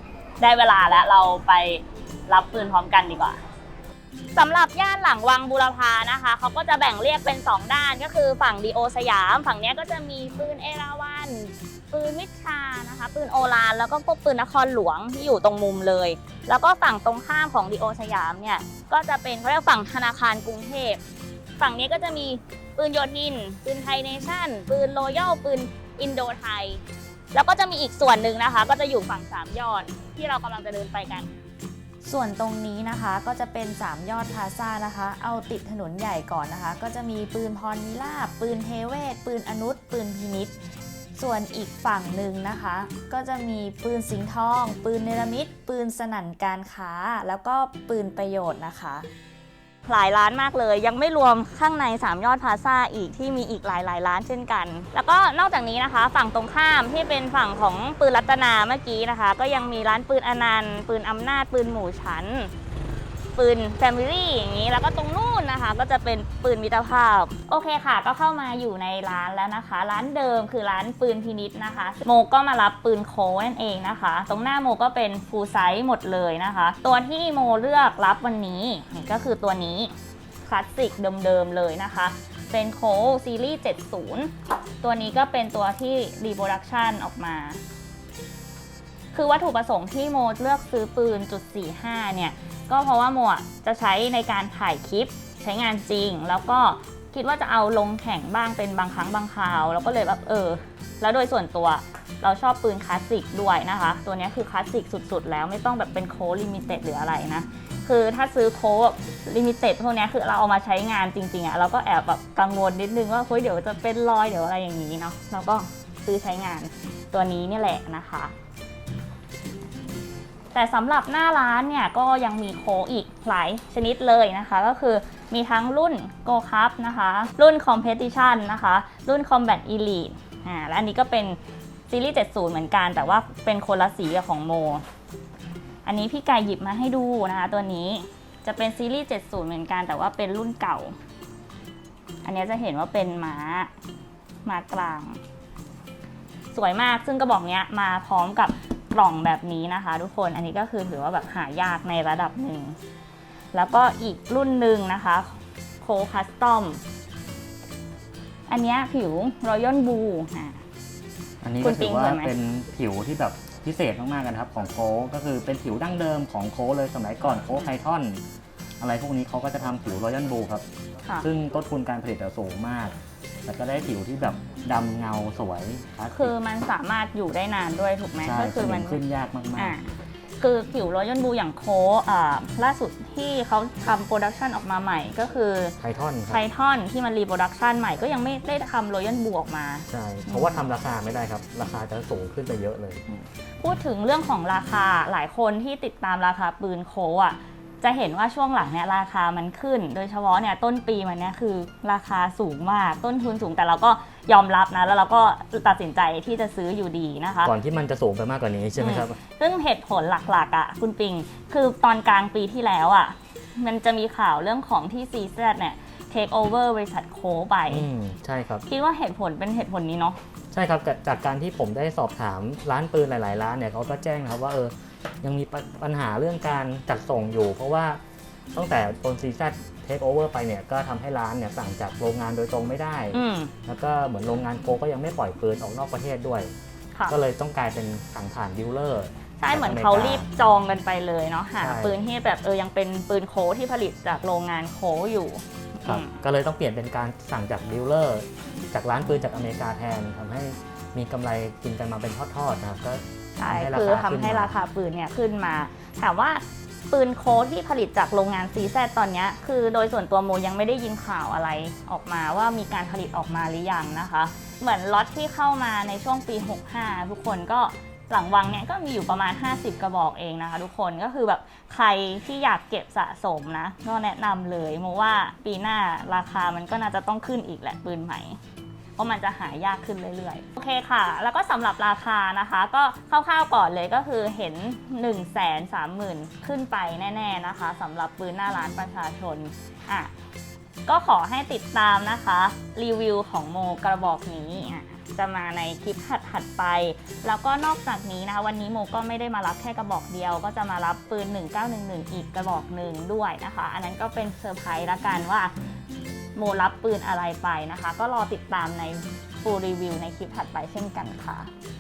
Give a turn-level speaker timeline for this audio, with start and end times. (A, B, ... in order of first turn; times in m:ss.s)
0:00.4-0:03.4 A
0:04.3-0:21.0 A
0:21.6-0:26.8 A
0:27.3-0:31.3 A
0:32.0-0:40.5 B
0:41.2-0:49.1 B
0:49.9-1:02.5 A
1:03.4-1:19.9 A
1:20.4-1:24.3 A
1:24.8-1:27.6 A
1:29.1-1:58.3 A
2:00.5-2:11.4 A
2:11.9-2:14.8 A
2:15.8-2:20.9 A
2:22.2-2:23.7 A
2:24.4-2:25.2 A
2:26.5-2:32.8 A
2:33.5-2:36.8 A
2:38.5-2:40.6 A
2:41.4-2:48.2 C
2:41.6-2:42.3 A
2:48.8-2:50.6 C
2:51.2-2:52.9 C
2:53.4-2:56.3 C
2:56.1-2:59.0 A
2:58.2-2:59.7 C
2:59.5-2:59.9 A
3:00.4-3:05.7 A
3:05.8-3:06.4 C
3:06.3-3:10.6 A
3:09.9-3:13.2 C
3:13.6-3:27.5 A
3:27.4-3:29.2 C
3:28.8-3:37.9 A
3:37.7-3:38.6 C
3:38.7-3:40.2 A
3:40.5-3:48.0 C
3:48.5-3:56.5 C
3:53.1-3:53.5 A
3:57.1-4:00.2 C
3:59.4-4:06.2 A
4:01.6-4:02.0 C
4:05.8-4:14.6 C
4:13.4-4:38.4 A
4:39.0-4:50.1 A
4:50.9-5:05.5 A
5:06.4-5:11.5 A